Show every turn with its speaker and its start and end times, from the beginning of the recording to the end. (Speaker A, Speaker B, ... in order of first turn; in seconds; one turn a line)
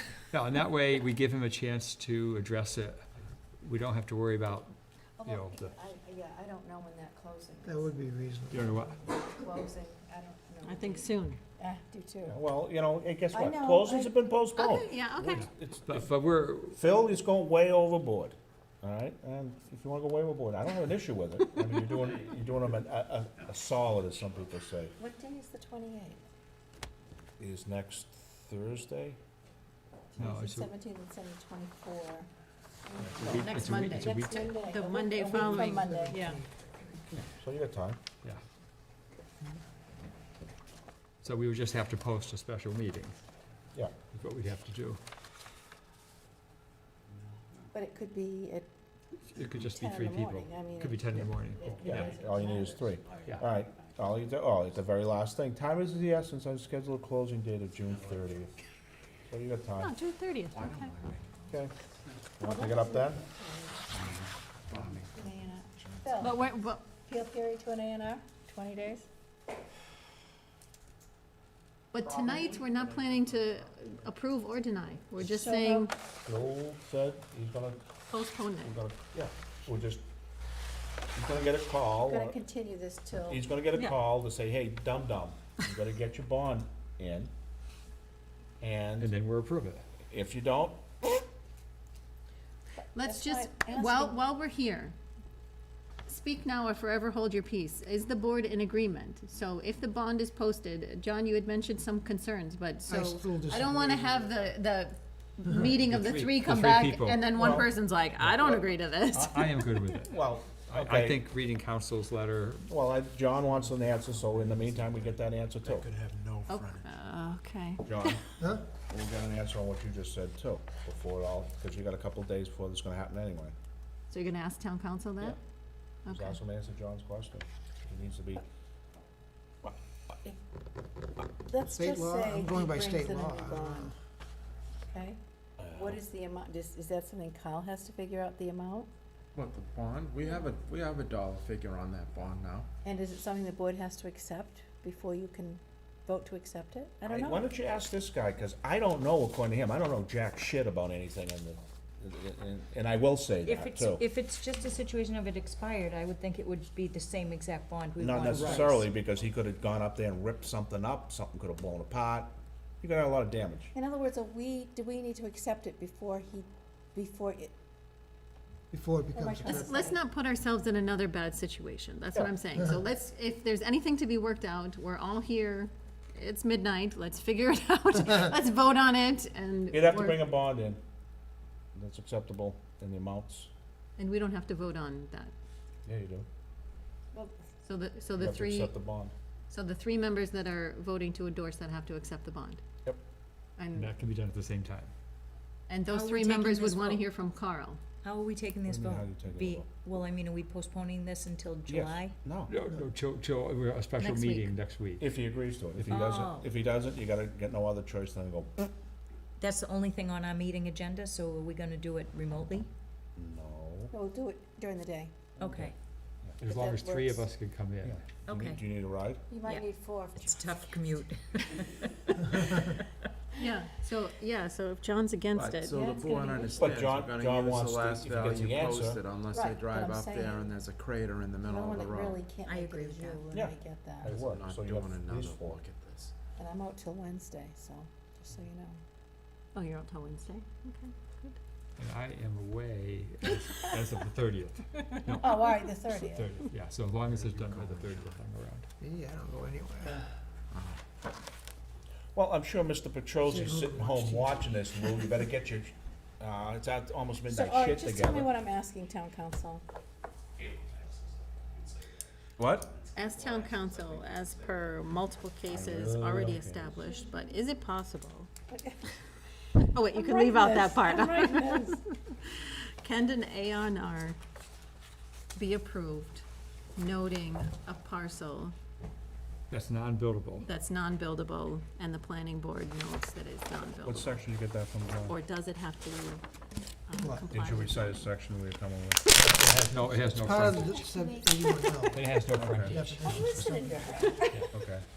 Speaker A: 0.2-3.0
Speaker A: 3.6-5.8
Speaker B: 5.2-7.9
Speaker C: 7.6-8.9
Speaker A: 8.5-9.0
Speaker B: 9.1-12.3
Speaker D: 10.6-11.4
Speaker E: 12.3-16.1
Speaker B: 13.3-14.1
Speaker D: 14.6-15.4
Speaker A: 15.2-16.8
Speaker E: 16.7-24.9
Speaker B: 25.0-26.2
Speaker E: 27.4-29.2
Speaker B: 30.1-32.3
Speaker A: 30.2-30.7
Speaker B: 32.9-36.3
Speaker A: 33.2-34.7
Speaker D: 33.4-34.1
Speaker D: 34.6-36.4
Speaker C: 35.1-36.5
Speaker E: 37.2-38.0
Speaker A: 41.2-43.2
Speaker A: 44.1-45.0
Speaker B: 47.7-48.7
Speaker A: 49.3-52.1
Speaker B: 49.5-52.7
Speaker E: 51.8-58.5
Speaker E: 59.3-59.9
Speaker D: 59.8-60.9
Speaker F: 60.5-61.4
Speaker E: 62.4-63.2
Speaker B: 62.4-63.9
Speaker F: 64.0-66.1
Speaker B: 65.1-66.4
Speaker D: 66.2-66.8
Speaker B: 66.9-69.1
Speaker D: 71.9-75.9
Speaker B: 75.2-75.9
Speaker E: 76.2-77.9
Speaker D: 78.1-78.7
Speaker E: 78.6-80.0
Speaker E: 81.2-82.4
Speaker B: 82.0-83.5
Speaker E: 83.3-87.3
Speaker E: 88.6-89.1
Speaker A: 89.0-89.8
Speaker E: 90.1-90.8
Speaker B: 92.9-94.2
Speaker D: 93.0-94.9
Speaker D: 96.1-109.5
Speaker C: 102.8-104.2
Speaker C: 105.4-105.8
Speaker A: 105.6-107.5
Speaker E: 107.3-109.2
Speaker A: 109.1-112.7
Speaker E: 110.0-111.2
Speaker E: 112.7-115.9
Speaker F: 114.3-115.1
Speaker F: 115.6-116.8
Speaker D: 116.5-118.2
Speaker E: 117.8-118.2
Speaker E: 118.7-123.5
Speaker D: 124.1-125.4
Speaker D: 126.0-126.4
Speaker E: 126.1-128.4
Speaker B: 131.4-133.9
Speaker C: 131.7-133.9
Speaker B: 134.9-135.2
Speaker E: 135.6-136.0
Speaker B: 135.7-138.9
Speaker F: 139.3-142.7
Speaker B: 142.8-147.5
Speaker E: 147.0-154.0
Speaker G: 153.4-158.8
Speaker E: 158.0-163.7
Speaker A: 158.3-158.7
Speaker B: 163.7-167.5
Speaker C: 168.7-169.9
Speaker B: 169.1-170.0
Speaker D: 169.4-180.3
Speaker E: 179.7-180.8
Speaker E: 181.7-183.5
Speaker D: 184.0-185.3
Speaker E: 185.8-186.2
Speaker D: 187.6-188.8
Speaker E: 188.2-189.1
Speaker D: 189.5-192.6
Speaker D: 193.6-193.9
Speaker A: 193.7-194.9
Speaker D: 195.7-197.8
Speaker G: 195.9-197.1
Speaker G: 198.0-202.2
Speaker E: 198.6-199.7
Speaker E: 201.7-202.6
Speaker A: 202.5-205.2
Speaker G: 204.0-204.6
Speaker E: 205.0-208.7
Speaker A: 205.8-206.0
Speaker G: 205.9-206.5
Speaker G: 209.4-212.7
Speaker E: 213.2-213.9
Speaker B: 213.9-215.2
Speaker G: 215.4-215.7
Speaker A: 216.4-218.1
Speaker B: 216.4-217.2
Speaker E: 217.8-219.2
Speaker G: 218.2-218.6
Speaker B: 219.3-220.8
Speaker G: 219.4-222.8
Speaker D: 223.4-225.8
Speaker F: 225.3-232.2
Speaker B: 225.7-226.7
Speaker E: 226.6-229.0
Speaker A: 228.2-228.4
Speaker B: 229.3-230.5
Speaker B: 231.4-234.2
Speaker G: 232.4-233.3
Speaker E: 233.3-235.6
Speaker F: 234.2-236.1
Speaker B: 236.4-238.8
Speaker D: 239.5-241.4
Speaker A: 241.8-248.6
Speaker B: 245.1-246.4
Speaker F: 247.2-248.0
Speaker C: 248.8-250.0
Speaker F: 250.5-250.8
Speaker E: 252.1-258.3
Speaker C: 253.2-254.8
Speaker B: 257.3-259.6
Speaker E: 262.4-262.6
Speaker D: 262.9-268.3
Speaker E: 265.5-266.7
Speaker B: 268.5-268.9
Speaker D: 269.6-274.2
Speaker B: 269.9-271.8
Speaker D: 275.3-276.2
Speaker D: 276.8-278.5
Speaker A: 279.5-280.5
Speaker D: 280.4-284.2
Speaker E: 283.8-285.2
Speaker D: 285.1-286.2
Speaker D: 286.9-288.0
Speaker C: 287.0-287.4
Speaker E: 287.3-289.2
Speaker C: 289.2-292.1
Speaker A: 289.3-290.8
Speaker D: 290.6-290.9
Speaker A: 291.9-293.4
Speaker E: 292.3-292.8
Speaker C: 292.6-294.1
Speaker B: 293.0-294.4
Speaker E: 294.5-294.8